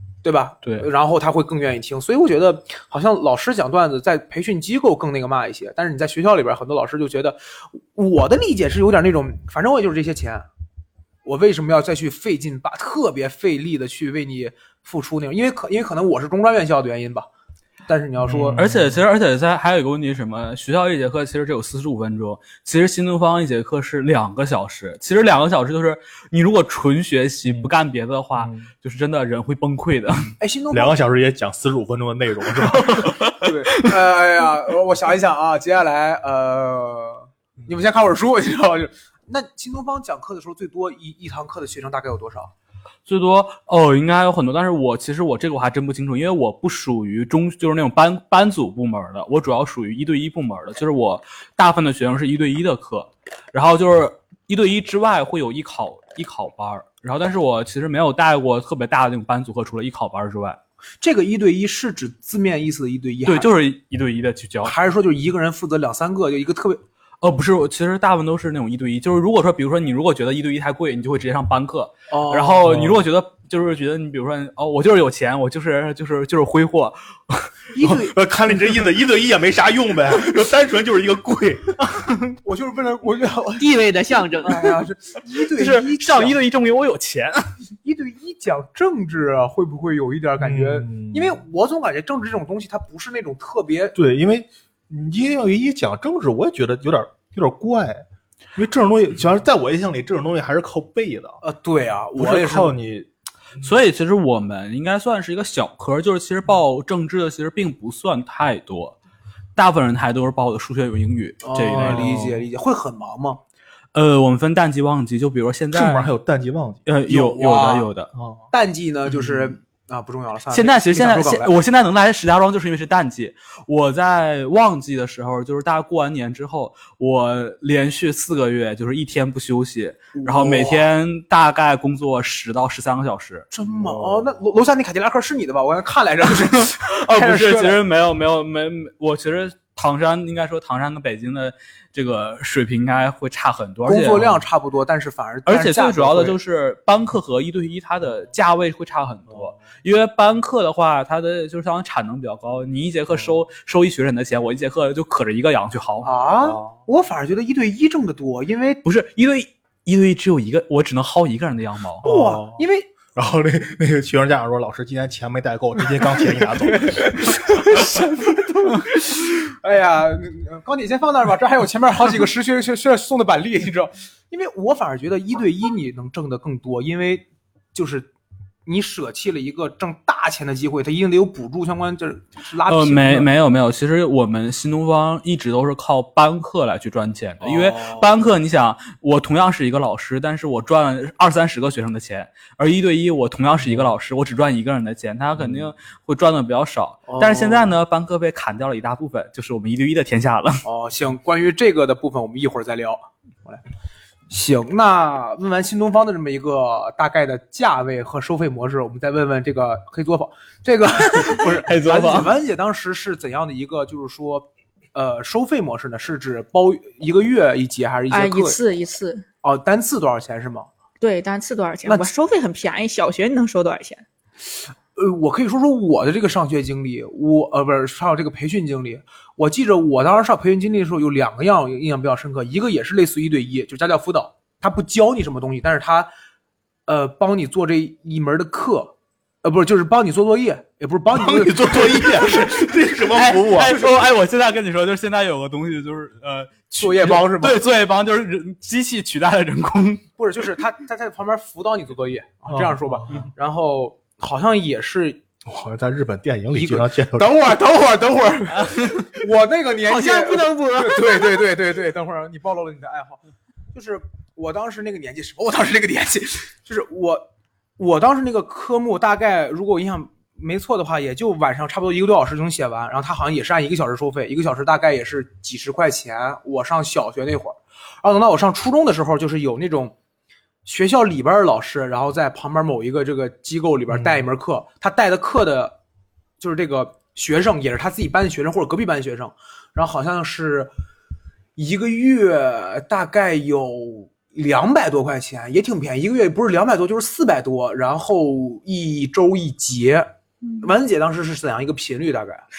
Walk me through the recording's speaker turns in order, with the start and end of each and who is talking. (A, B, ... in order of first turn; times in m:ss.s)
0:00.2-0:10.5 A
0:11.2-0:17.3 A
0:17.9-0:18.7 A
0:18.2-0:19.0 B
0:18.5-0:30.3 C
0:27.5-0:27.7 B
0:28.4-0:28.7 B
0:30.4-0:31.0 A
0:30.7-0:33.2 B
0:32.5-0:34.0 C
0:33.4-0:42.5 A
0:43.1-1:00.6 C
1:01.0-1:03.5 A
1:03.3-1:04.8 C
1:04.6-1:06.8 A
1:07.2-1:17.5 C
1:12.1-1:12.7 A
1:12.6-1:13.0 B
1:17.7-1:18.2 A
1:17.8-1:22.1 B
1:22.4-1:23.7 A
1:23.6-1:24.7 D
1:24.4-1:26.4 A
1:25.6-1:27.5 C
1:27.8-1:34.0 A
1:30.4-1:31.4 B
1:34.0-1:38.0 B
1:38.6-1:41.4 B
1:41.4-1:42.7 A
1:42.2-1:43.1 B
1:43.6-1:49.0 C
1:49.6-1:52.2 C
1:51.4-1:53.4 A
1:51.8-1:52.4 B
1:53.9-1:56.1 C
1:55.7-1:56.8 B
1:56.9-1:58.1 C
1:57.1-1:57.9 A
1:58.1-1:58.5 B
1:58.5-2:01.5 A
2:00.5-2:13.5 C
2:10.2-2:10.8 A
2:13.5-2:17.8 A
2:13.8-2:14.4 B
2:16.4-2:24.4 C
2:23.8-2:26.4 A
2:25.5-2:36.1 C
2:36.0-2:38.8 A
2:36.4-2:36.8 B
2:38.8-2:42.1 C
2:42.0-2:42.6 B
2:42.0-2:42.9 A
2:43.2-2:47.4 B
2:46.1-2:58.1 A
2:58.7-3:03.3 A
3:02.7-3:20.6 C
3:07.4-3:08.1 A
3:15.4-3:15.7 B
3:17.1-3:17.7 A
3:20.6-3:23.6 A
3:24.3-3:38.6 A
3:31.2-3:32.3 C
3:38.1-3:39.2 D
3:39.4-3:40.7 A
3:41.0-3:44.0 D
3:41.9-3:42.1 A
3:45.0-3:56.1 A
3:56.9-4:02.7 A
4:01.1-4:03.9 B
4:03.1-4:10.0 C
4:06.8-4:07.6 A
4:10.2-4:15.2 A
4:12.5-4:13.3 B
4:15.4-4:17.3 B
4:16.5-4:23.2 A
4:19.9-4:21.4 D
4:23.7-4:27.3 A
4:27.8-4:39.9 A
4:40.6-4:45.8 A
4:43.9-4:44.2 B
4:46.4-4:50.7 A
4:51.6-5:00.1 A
5:00.4-5:00.7 D
5:00.6-5:02.4 A